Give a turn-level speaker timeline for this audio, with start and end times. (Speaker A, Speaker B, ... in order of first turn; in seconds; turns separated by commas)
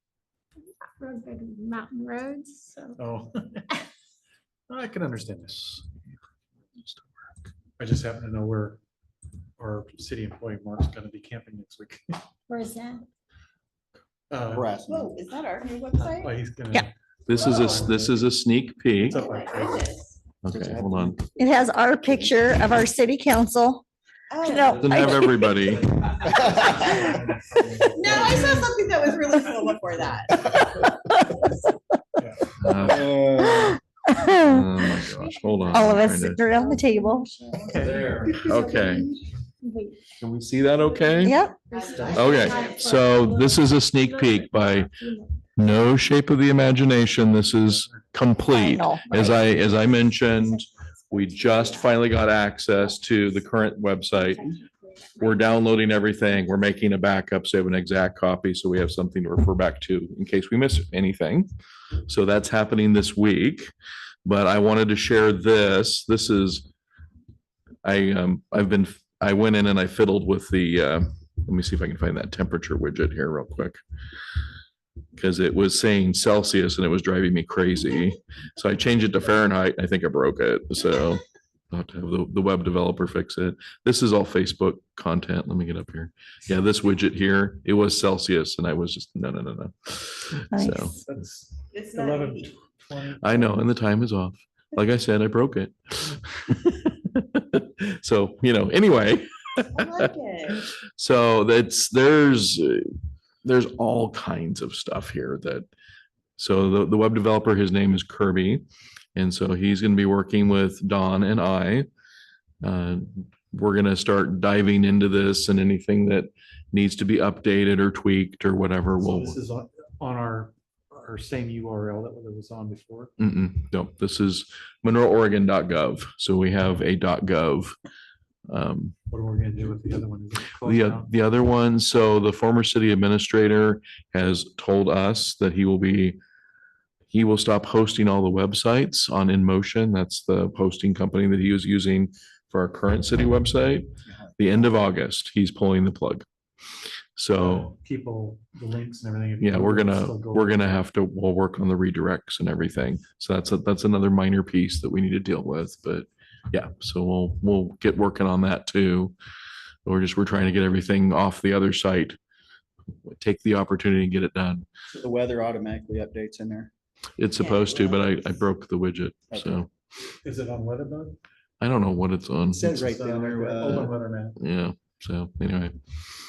Speaker A: 0.8-3.0, Speaker B: 3.0-3.6, Speaker B: 4.7-5.8, Speaker C: 5.5-5.8, Speaker C: 6.8-7.1, Speaker B: 7.8-8.8, Speaker B: 9.6-12.2, Speaker A: 12.5-13.1, Speaker B: 14.3-14.7, Speaker D: 14.5-15.3, Speaker E: 14.9-16.4, Speaker B: 15.9-18.3, Speaker C: 17.3-19.2, Speaker B: 19.0-20.0, Speaker E: 19.1-20.2, Speaker C: 20.4-21.2, Speaker D: 20.5-21.5, Speaker F: 21.4-23.8, Speaker D: 22.1-22.4, Speaker E: 24.3-25.2, Speaker F: 24.4-25.5, Speaker B: 24.5-24.9, Speaker C: 24.8-25.9, Speaker B: 25.8-28.8, Speaker E: 27.9-30.7, Speaker A: 28.2-28.8, Speaker B: 29.9-30.6, Speaker F: 31.0-31.5, Speaker B: 32.2-32.5, Speaker C: 32.6-33.2, Speaker D: 32.8-33.8, Speaker F: 33.4-35.1, Speaker C: 34.4-36.5, Speaker A: 35.1-40.0, Speaker F: 35.7-37.3, Speaker B: 35.8-36.0, Speaker B: 37.6-38.4, Speaker C: 37.8-39.1, Speaker C: 40.2-41.4, Speaker E: 40.8-43.0, Speaker F: 41.2-41.5, Speaker A: 41.6-45.7, Speaker B: 41.9-42.4, Speaker C: 42.1-45.0, Speaker C: 45.6-54.5, Speaker B: 47.0-48.1, Speaker F: 48.5-49.6, Speaker A: 49.5-51.9, Speaker A: 52.8-53.4, Speaker A: 54.1-55.4, Speaker C: 55.2-61.5, Speaker C: 62.1-63.7, Speaker C: 64.3-66.7, Speaker C: 67.8-73.8, Speaker C: 75.2-91.0, Speaker F: 90.5-91.0, Speaker B: 90.9-93.7, Speaker E: 91.7-92.5, Speaker C: 93.2-102.8, Speaker E: 99.8-100.7, Speaker C: 103.4-105.7, Speaker C: 106.4-108.6, Speaker C: 109.2-111.9, Speaker C: 112.6-119.4, Speaker B: 119.0-123.1, Speaker C: 123.2-127.8, Speaker C: 128.5-128.9, Speaker B: 129.1-131.1, Speaker C: 130.6-136.2, Speaker C: 137.1-146.3, Speaker D: 144.1-144.8, Speaker C: 147.2-147.7, Speaker B: 147.3-150.8, Speaker C: 149.4-159.2, Speaker C: 159.9-162.2, Speaker C: 163.0-164.7, Speaker D: 164.9-166.7, Speaker C: 167.2-169.7, Speaker E: 167.3-168.4, Speaker D: 169.3-169.7, Speaker B: 170.2-171.2, Speaker C: 171.6-172.7, Speaker D: 172.4-173.9, Speaker B: 172.7-174.4, Speaker C: 174.4-175.8